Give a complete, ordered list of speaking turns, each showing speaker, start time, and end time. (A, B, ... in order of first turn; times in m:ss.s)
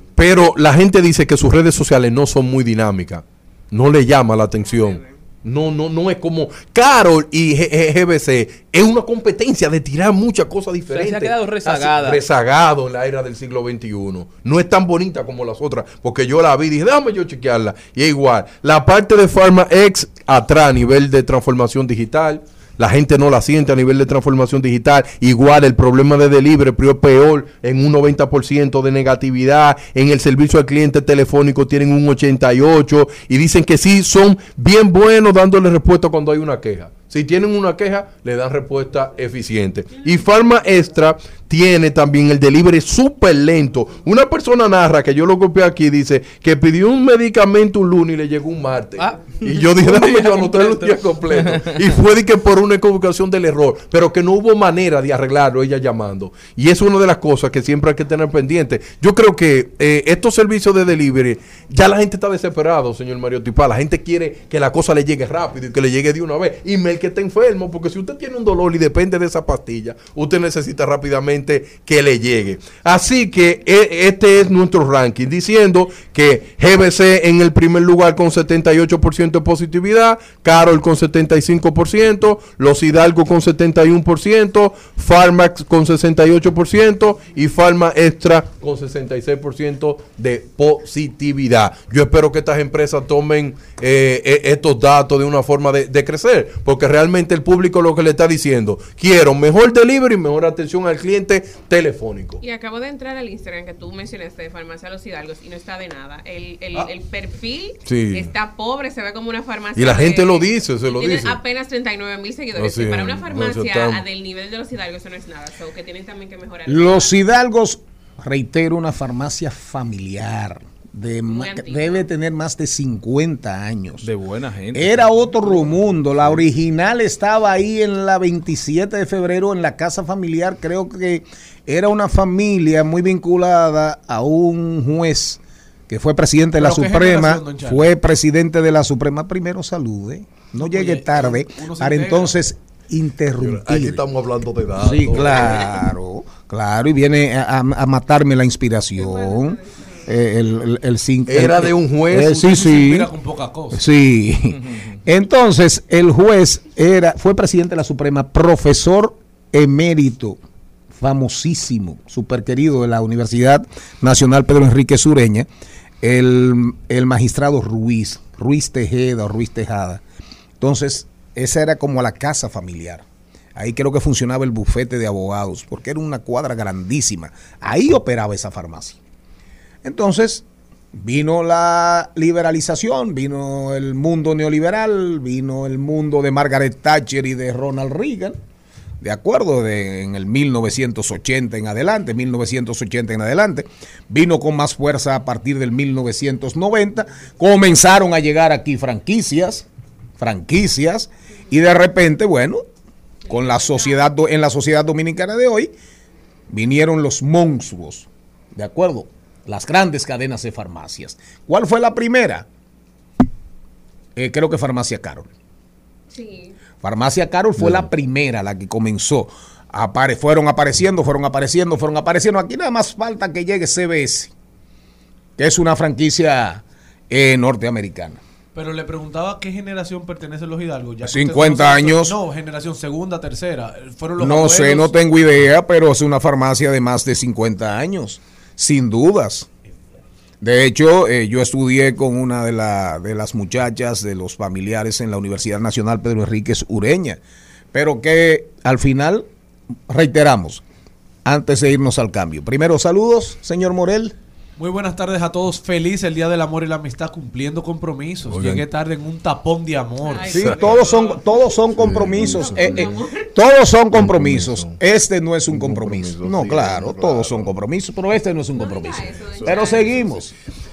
0:00.2-1:42.4 A
0:04.7-0:05.0 B
0:10.9-0:12.2 C
0:49.0-0:51.8 C
1:42.4-1:57.2 B
1:47.9-1:48.3 A
1:49.8-1:51.4 A
1:52.6-1:54.0 A
1:56.7-2:04.1 D
2:01.3-2:02.1 B
2:04.0-2:05.7 C
2:04.7-2:24.0 D
2:16.6-2:17.9 E
2:20.6-2:22.4 E
2:23.4-2:25.6 A
2:24.8-2:33.1 D
2:29.0-2:30.1 B
2:31.3-2:32.5 A
2:32.3-2:33.8 E
2:33.7-2:40.4 D
2:34.5-2:35.0 C
2:41.0-2:45.5 D
2:46.0-2:50.0 D
2:50.6-2:53.0 D
2:53.6-2:59.0 D
2:59.8-3:08.4 D
3:09.0-3:19.7 D
3:20.2-3:22.6 D
3:23.3-3:25.7 D
3:23.3-3:23.9 B
3:26.5-3:32.5 D
3:34.2-3:35.3 D
3:36.1-3:36.6 B
3:36.8-3:44.3 D
3:37.6-3:37.9 A
3:45.4-3:48.2 D
3:48.6-3:55.0 E
3:51.0-3:52.2 D
3:54.2-3:59.5 D
4:00.4-4:07.2 D
4:07.7-4:09.3 D
4:09.9-4:10.6 D
4:11.2-4:14.2 D
4:14.6-4:20.3 E
4:18.3-4:18.6 A
4:20.0-4:21.2 B
4:20.2-4:30.3 D
4:20.3-4:20.8 A
4:21.8-4:22.9 A
4:22.2-4:23.3 B
4:24.0-4:24.8 A
4:25.5-4:27.5 A
4:28.6-4:30.1 B
4:29.4-4:29.8 A